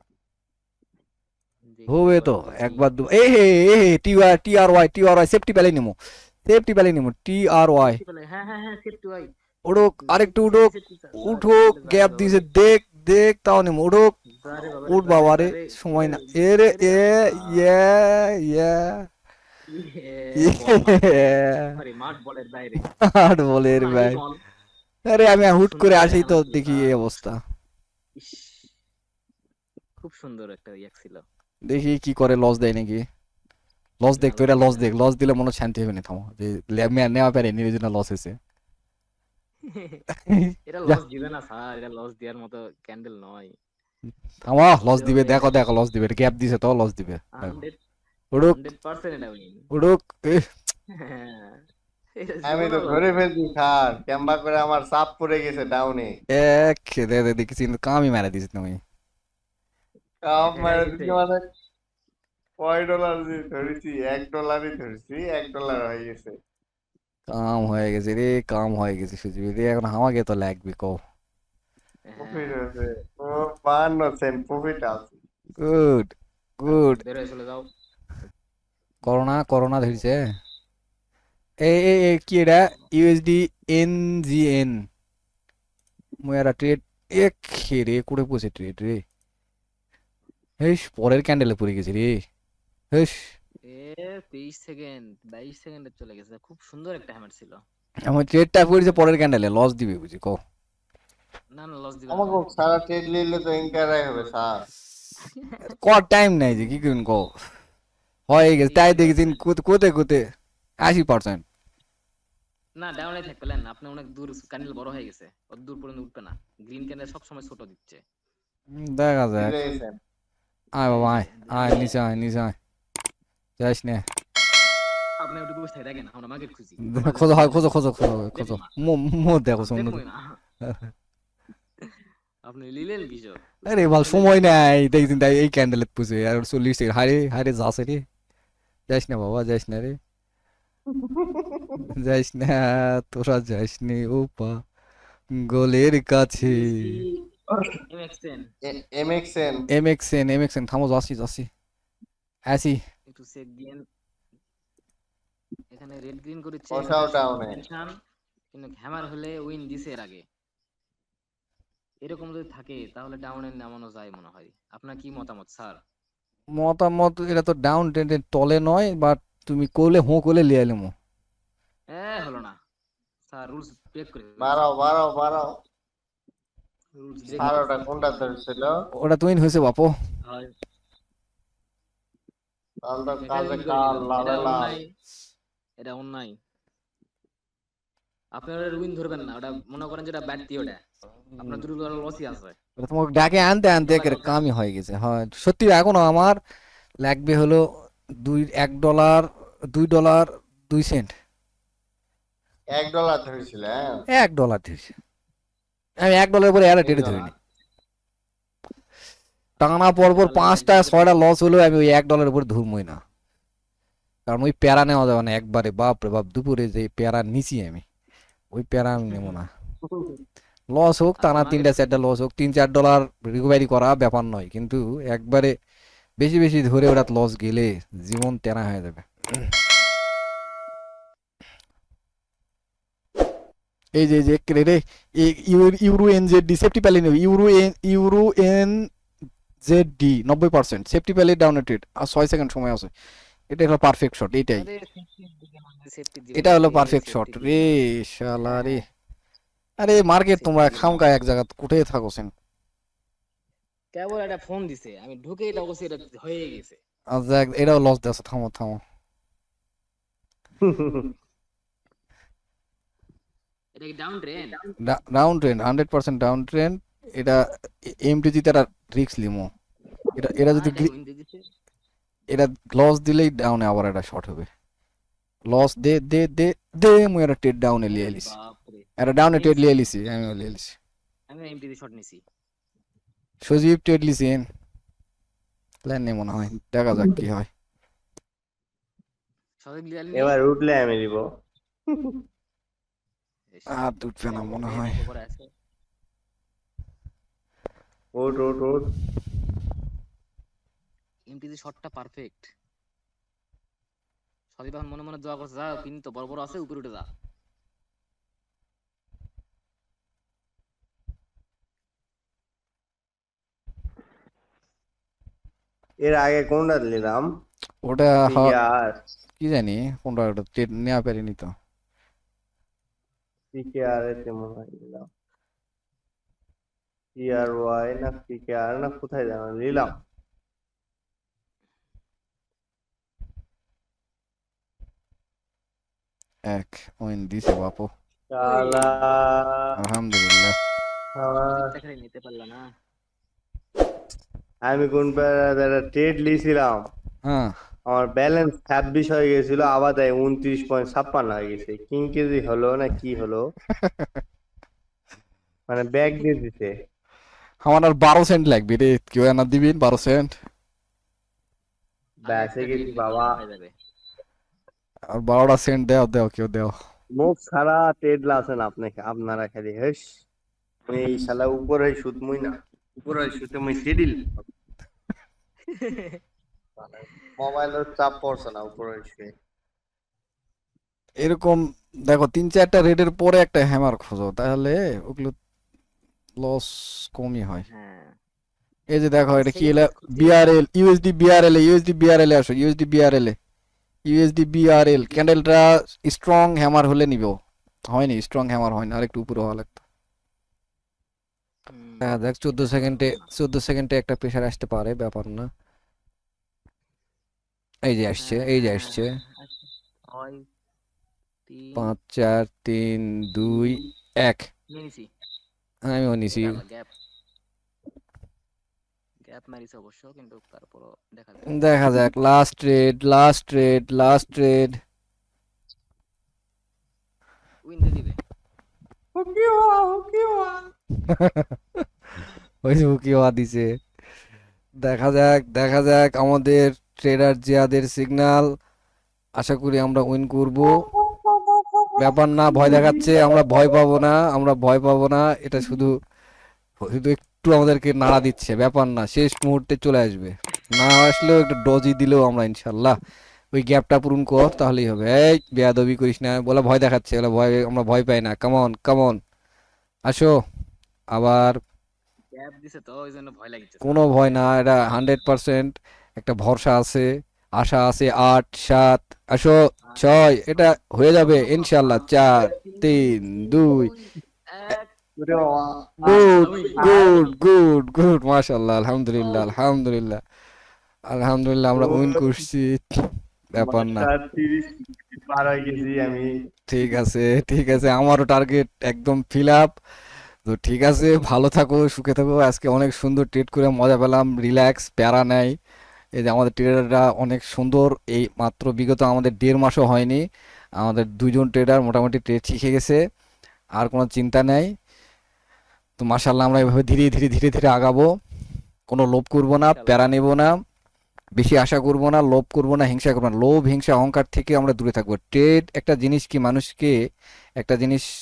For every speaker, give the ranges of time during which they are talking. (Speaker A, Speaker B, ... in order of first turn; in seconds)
Speaker A: 1.7-2.9, 7.8-9.3, 10.0-12.4, 14.3-17.7, 19.7-22.9, 23.8-24.4, 25.7-27.0, 28.2-28.7, 30.0-31.2, 34.2-34.9, 39.7-40.0, 40.7-43.5, 44.8-45.5, 47.4-47.8, 48.5-49.7, 51.0-51.6, 52.2-53.2, 60.4-61.2, 72.1-72.6, 76.7-77.7, 93.6-97.6, 101.5-102.5, 105.3-105.6, 108.6-109.4, 112.8-118.0, 120.9-122.0, 125.2-127.7, 128.3-128.8, 129.6-130.4, 132.5-134.4, 146.4-147.2, 147.9-148.5, 153.1-153.8, 155.7-157.9, 158.5-160.2, 162.0-165.8, 171.9-172.6, 173.3-174.7, 177.0-177.9, 180.3-180.5, 183.2-184.9, 185.8-186.4, 188.3-190.8, 191.4-192.6, 193.8-194.4, 210.0-211.2, 219.1-219.3, 221.2-221.9, 244.6-247.8, 248.4-248.8, 250.2-251.0, 253.9-256.8, 263.8-264.6, 270.5-271.4, 277.9-279.8, 281.3-282.2, 289.6-290.4, 293.5-295.5, 301.3-302.5, 304.6-307.1, 338.4-339.4, 341.4-342.6, 362.3-363.7, 375.7-376.2, 387.7-388.2, 389.3-390.6, 394.8-395.2, 401.7-403.3, 408.2-410.4, 411.5-411.9, 414.7-415.1, 416.3-416.9, 419.3-421.6, 427.6-428.2, 462.3-464.6, 469.9-474.9, 476.1-477.4, 509.7-510.1
Speaker B: 1.9-8.0, 9.7-14.2, 14.9-19.1, 20.4-21.8, 22.9-24.2, 25.1-27.4, 31.7-33.0, 34.0-38.4, 40.3-41.0, 44.4-47.6, 49.7-50.5, 56.3-58.8, 67.3-71.0, 75.6-77.0, 79.0-80.2, 81.6-84.9, 86.2-89.0, 90.6-92.2, 92.9-93.3, 98.1-100.4, 105.7-107.3, 108.3-110.2, 110.8-111.4, 118.7-119.5, 120.8-122.5, 123.6-124.0, 126.8-130.0, 130.6-130.9, 133.7-138.1, 138.9-140.0, 141.9-144.6, 145.3-146.8, 149.7-151.5, 152.5-152.8, 166.5-170.9, 179.0-179.9, 191.3-191.7, 192.8-196.4, 197.0-197.6, 198.2-201.1, 204.1-205.0, 206.0-207.3, 209.6-213.0, 214.3-217.8, 218.5-219.5, 220.7-225.5, 226.2-229.5, 234.0-238.9, 239.6-242.9, 243.5-244.7, 246.4-248.8, 249.8-252.3, 257.1-258.8, 264.8-269.5, 270.2-270.9, 272.3-274.5, 275.5-278.3, 279.0-280.8, 283.4-284.4, 285.9-287.5, 293.7-295.0, 317.8-318.5, 319.4-321.5, 336.5-337.9, 339.8-340.6, 347.2-347.5, 353.7-354.1, 357.6-360.3, 365.1-366.7, 381.2-385.4, 386.4-387.6, 388.9-393.4, 394.1-399.8, 402.0-405.5, 407.9-409.1, 411.8-414.5, 415.9-416.6, 421.5-424.8, 431.1-431.8, 432.6-433.7, 434.8-438.4, 439.4-440.7, 442.0-445.9, 446.8-452.9, 453.5-459.2, 460.1-460.3, 461.1-461.6, 463.8-467.1, 467.6-473.9, 476.1-480.2, 481.1-484.1, 486.7-489.8, 490.4-495.6, 496.2-500.2, 500.8-503.0, 503.8-504.7, 506.0-508.1, 508.9-510.5, 511.4-516.9, 517.6-518.1
Speaker C: 52.5-56.1, 60.2-61.4, 62.6-66.3, 72.2-75.2, 102.1-104.7, 119.4-120.0, 140.9-141.8, 148.7-149.6, 156.7-157.6, 174.4-175.5, 177.4-178.7, 182.8-184.8, 202.7-204.0, 206.8-207.3, 219.9-220.2, 260.6-261.1, 290.1-291.2, 291.9-292.2, 298.2-298.9, 316.0-317.2, 318.3-318.9, 323.5-325.1, 327.2-329.9, 338.3-339.7, 341.2-341.7, 344.7-346.8, 347.9-353.5, 355.7-356.7, 362.3-363.3, 367.2-370.2, 370.9-374.3, 376.8-379.3, 429.1-430.7, 440.7-443.8, 475.2-477.0, 481.8-482.4, 483.6-486.3